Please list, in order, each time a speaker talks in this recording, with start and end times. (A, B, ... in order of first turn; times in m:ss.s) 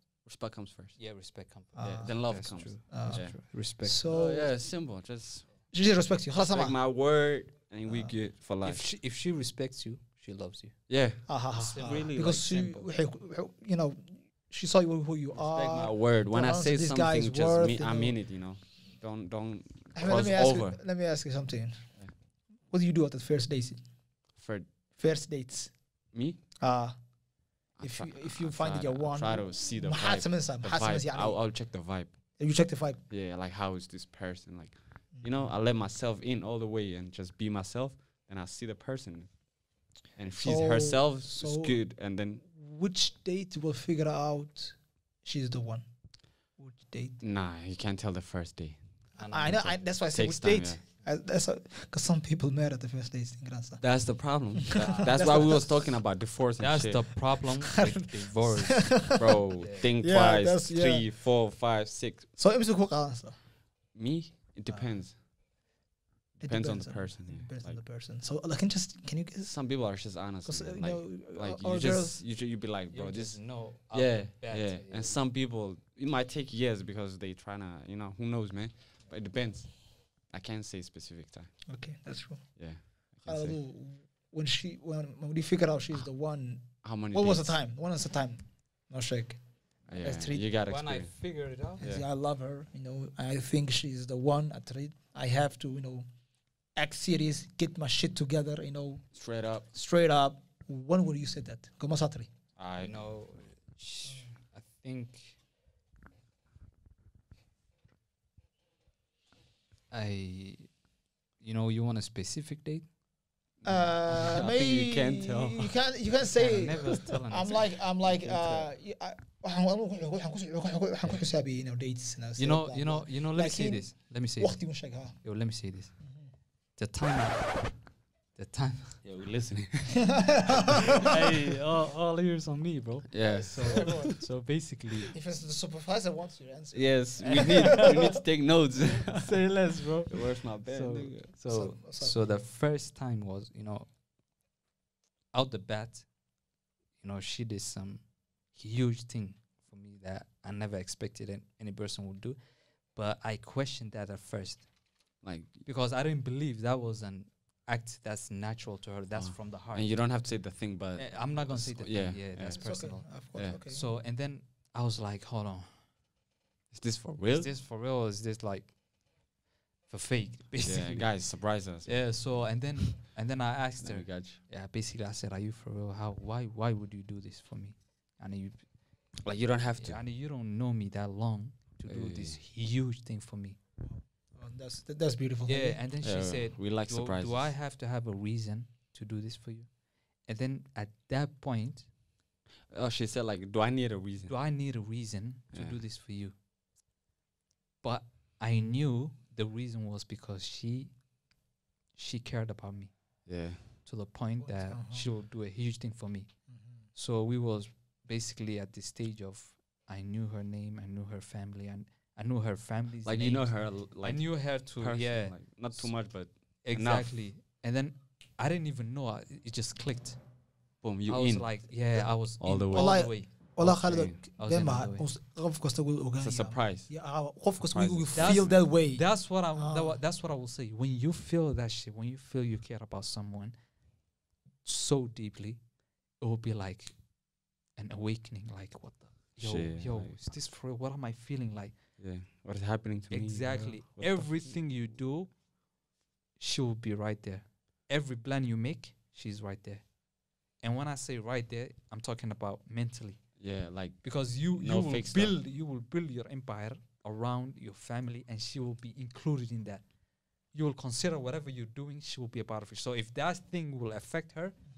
0:00.2-0:01.0 A
0:01.0-0:04.0 B
0:01.8-0:02.1 C
0:01.8-0:03.4 A
0:02.9-0:03.2 C
0:03.8-0:04.5 C
0:04.1-0:05.5 A
0:05.7-0:06.8 C
0:06.5-0:08.9 A
0:08.6-0:10.8 B
0:10.9-0:12.8 A
0:11.3-0:18.2 C
0:11.6-0:12.5 B
0:15.4-0:20.8 A
0:20.0-0:21.8 C
0:22.7-0:23.8 C
0:24.4-0:24.7 A
0:25.0-0:25.7 C
0:26.1-0:26.4 A
0:26.6-0:27.0 C
0:27.8-0:32.2 A
0:27.8-0:31.4 C
0:32.4-0:33.0 C
0:33.1-0:39.3 A
0:40.2-0:42.4 A
0:40.4-0:41.8 C
0:42.4-0:45.9 C
0:46.6-0:47.2 C
0:47.2-0:48.8 A
0:49.2-0:49.8 B
0:49.3-0:53.8 C
0:50.1-0:50.8 A
0:53.8-0:57.1 A
0:54.6-0:55.8 C
0:56.6-0:59.0 B
0:57.6-0:59.4 C
0:59.2-1:02.3 A
0:59.6-0:59.9 B
1:00.0-1:01.0 C
1:02.4-1:03.4 C
1:04.0-1:05.1 A
1:06.4-1:07.8 A
1:06.4-1:09.5 C
1:09.5-1:13.4 A
1:10.5-1:12.2 C
1:12.9-1:15.2 B
1:13.9-1:19.8 A
1:20.3-1:21.5 A
1:21.7-1:22.4 C
1:22.6-1:23.6 A
1:23.3-1:29.4 C
1:26.8-1:27.5 A
1:29.9-1:31.1 A
1:30.0-1:30.4 C
1:30.7-1:31.8 B
1:31.8-1:36.1 C
1:36.8-1:39.0 C
1:39.2-1:39.6 A
1:39.7-1:42.3 C
1:42.6-1:43.0 A
1:42.8-1:45.4 B
1:49.9-1:50.7 B
1:51.4-1:52.9 B
1:53.6-1:55.7 A
1:53.6-2:05.2 C
1:56.2-1:58.7 B
2:02.4-2:04.6 B
2:05.2-2:05.9 B
2:06.8-2:07.7 B
2:08.4-2:09.0 B
2:09.0-2:10.1 A
2:10.0-2:11.1 C
2:10.7-2:11.0 A
2:10.9-2:15.1 B
2:13.1-2:14.1 A
2:13.7-2:14.1 C
2:15.1-2:18.1 C
2:16.7-2:19.4 A
2:17.2-2:18.0 B
2:19.1-2:23.9 B
2:20.1-2:21.3 A
2:21.5-2:22.3 C
2:25.3-2:26.1 B
2:27.0-2:32.4 B
2:33.0-2:34.7 B
2:35.2-2:35.6 A
2:35.6-2:40.0 B
2:39.2-2:42.6 A
2:41.0-2:43.1 B
2:42.5-2:43.8 C
2:43.7-2:45.7 B
2:46.7-2:47.5 A
2:47.3-2:48.7 B
2:49.9-2:51.1 B
2:50.6-2:52.0 A
2:51.8-2:58.6 B
2:53.8-2:54.4 A
2:59.2-3:00.0 A
2:59.8-3:03.6 B
3:01.9-3:02.4 A
3:03.8-3:05.8 C
3:05.5-3:09.7 B
3:06.0-3:07.5 A
3:10.3-3:11.9 B
3:12.7-3:14.3 A
3:14.3-3:16.3 B
3:15.5-3:15.8 A
3:17.8-3:20.9 B
3:22.0-3:22.9 B
3:23.3-3:23.6 A
3:23.9-3:26.3 B
3:24.4-3:25.1 C
3:27.0-3:35.9 B
3:33.1-3:37.1 A
3:36.6-3:40.2 B
3:40.8-3:43.1 A
3:41.1-3:45.1 B
3:42.7-3:49.0 C
3:43.8-3:44.2 A
3:46.2-3:46.9 A
3:47.6-3:48.6 A
3:48.2-3:53.6 B
3:49.6-3:50.0 C
3:54.6-3:55.6 B
3:56.2-3:56.9 B
3:57.8-4:01.7 B
3:59.4-4:00.1 A
4:02.0-4:04.5 A
4:03.1-4:05.3 B
4:06.4-4:09.8 B
4:10.6-4:13.2 B
4:13.4-4:15.4 A
4:14.0-4:19.8 B
4:20.5-4:24.6 B